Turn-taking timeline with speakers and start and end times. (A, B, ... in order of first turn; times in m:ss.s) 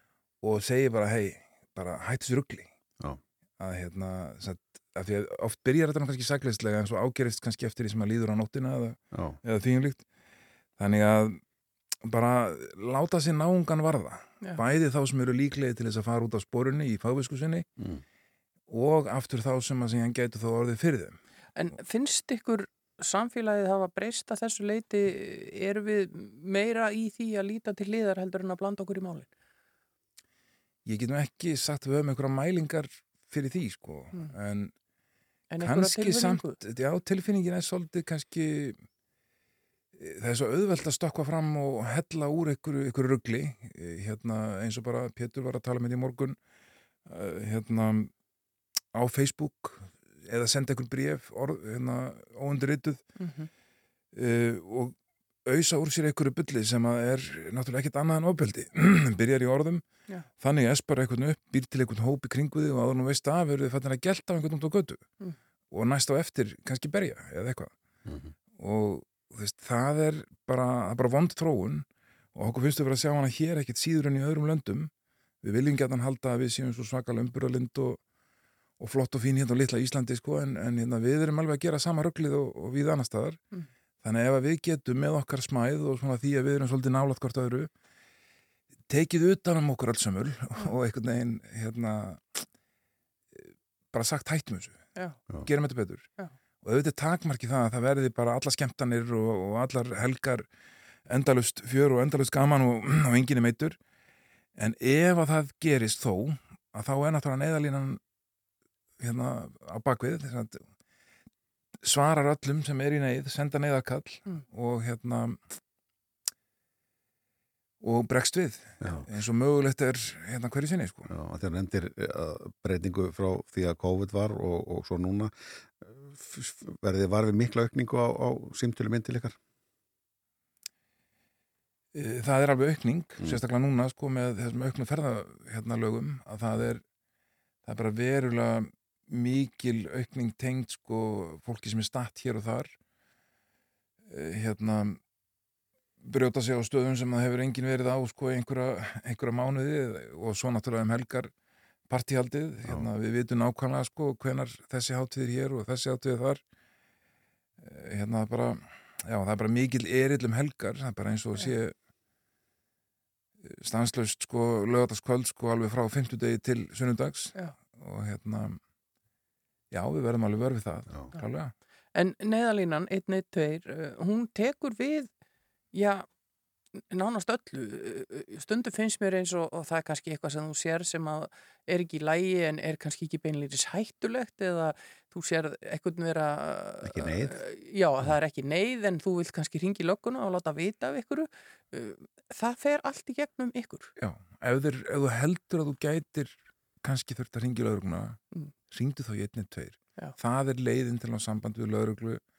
0:00.4-0:02.7 A
0:03.6-0:10.0 A
0:09.1-0:09.4 B
0:10.8-0:11.4 A
0:12.0-0:17.7 A
0:18.7-0:21.2 A
0:21.6-0:29.3 C
0:30.8-0:34.7 A
0:35.5-0:36.6 C
0:35.6-0:38.8 A
0:40.0-0:46.4 A
0:47.1-0:48.1 A
0:49.0-0:53.0 A
0:53.2-0:53.5 C
0:54.1-0:59.8 A
1:00.4-1:05.0 A
1:05.7-1:07.7 A
1:08.1-1:08.3 B
1:08.6-1:14.9 A
1:15.4-1:18.0 A
1:18.8-1:23.4 A
1:24.0-1:27.7 A
1:28.9-1:32.5 A
1:33.4-1:34.8 A
1:35.4-1:36.1 A
1:36.6-1:40.5 A
1:41.1-1:43.8 A
1:44.6-1:48.0 A
1:49.0-1:50.6 A
1:51.8-1:55.4 A
1:57.8-2:01.1 A
2:01.1-2:09.4 B
2:11.9-2:16.8 A
2:17.6-2:22.7 A
2:24.1-2:25.0 A
2:26.0-2:31.3 A
2:31.9-2:36.4 A
2:37.6-2:41.8 A
2:43.4-2:48.6 A
2:49.7-2:51.5 A
2:52.0-2:55.1 C
2:55.7-2:56.1 C
2:56.8-3:13.9 C
3:06.8-3:07.4 B
3:14.0-3:22.2 A